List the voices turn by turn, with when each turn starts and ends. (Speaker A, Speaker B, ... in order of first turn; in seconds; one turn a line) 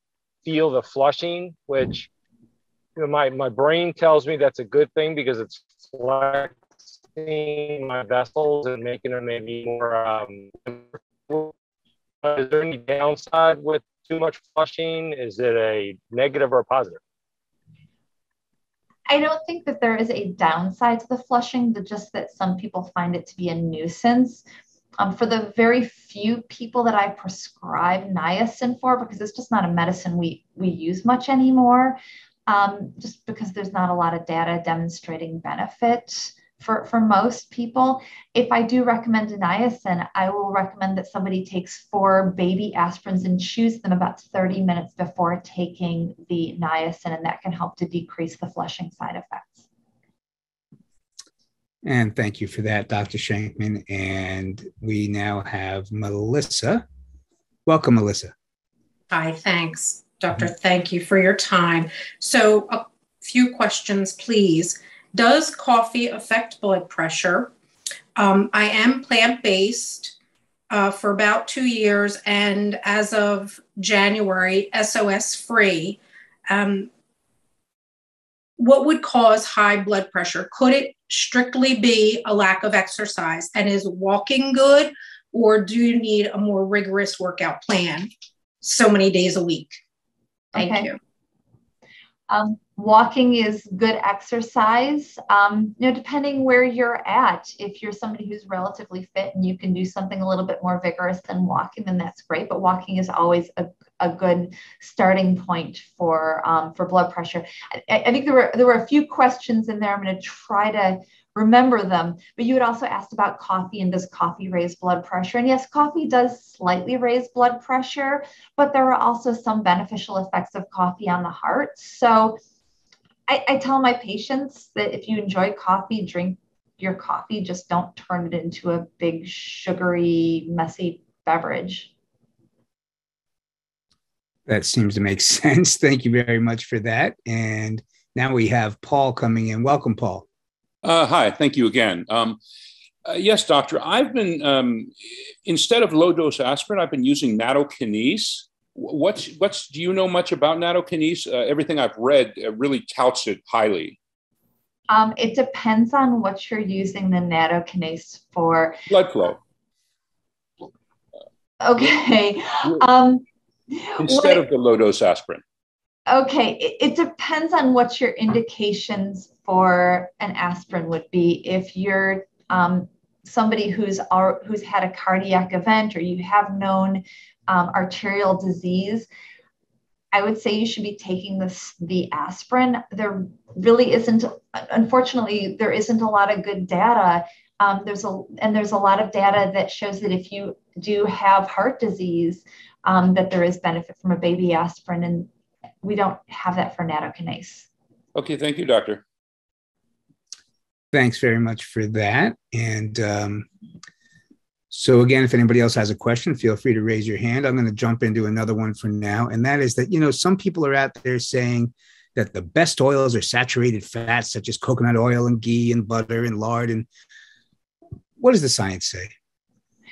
Speaker A: 0.4-2.1
Speaker A: 3.0-6.5
Speaker A: 7.1-11.5
Speaker A: 12.2-17.0
Speaker B: 19.1-24.4
Speaker B: 25.0-49.6
Speaker C: 51.8-56.8
Speaker C: 57.6-58.3
Speaker D: 59.1-67.5
Speaker D: 68.2-70.1
Speaker D: 70.7-76.0
Speaker D: 76.5-76.9
Speaker D: 78.6-88.1
Speaker D: 88.6-89.8
Speaker D: 90.5-91.0
Speaker B: 90.5-90.9
Speaker B: 92.3-122.4
Speaker B: 123.3-131.9
Speaker C: 134.5-140.2
Speaker E: 140.8-142.4
Speaker E: 143.1-144.9
Speaker E: 145.4-154.0
Speaker B: 154.9-158.7
Speaker E: 158.9-159.4
Speaker B: 161.6-164.4
Speaker E: 164.0-165.4
Speaker B: 166.1-179.1
Speaker B: 180.1-195.3
Speaker B: 195.8-197.7
Speaker E: 198.1-199.0
Speaker C: 200.9-203.4
Speaker C: 204.7-216.9
Speaker C: 218.2-219.1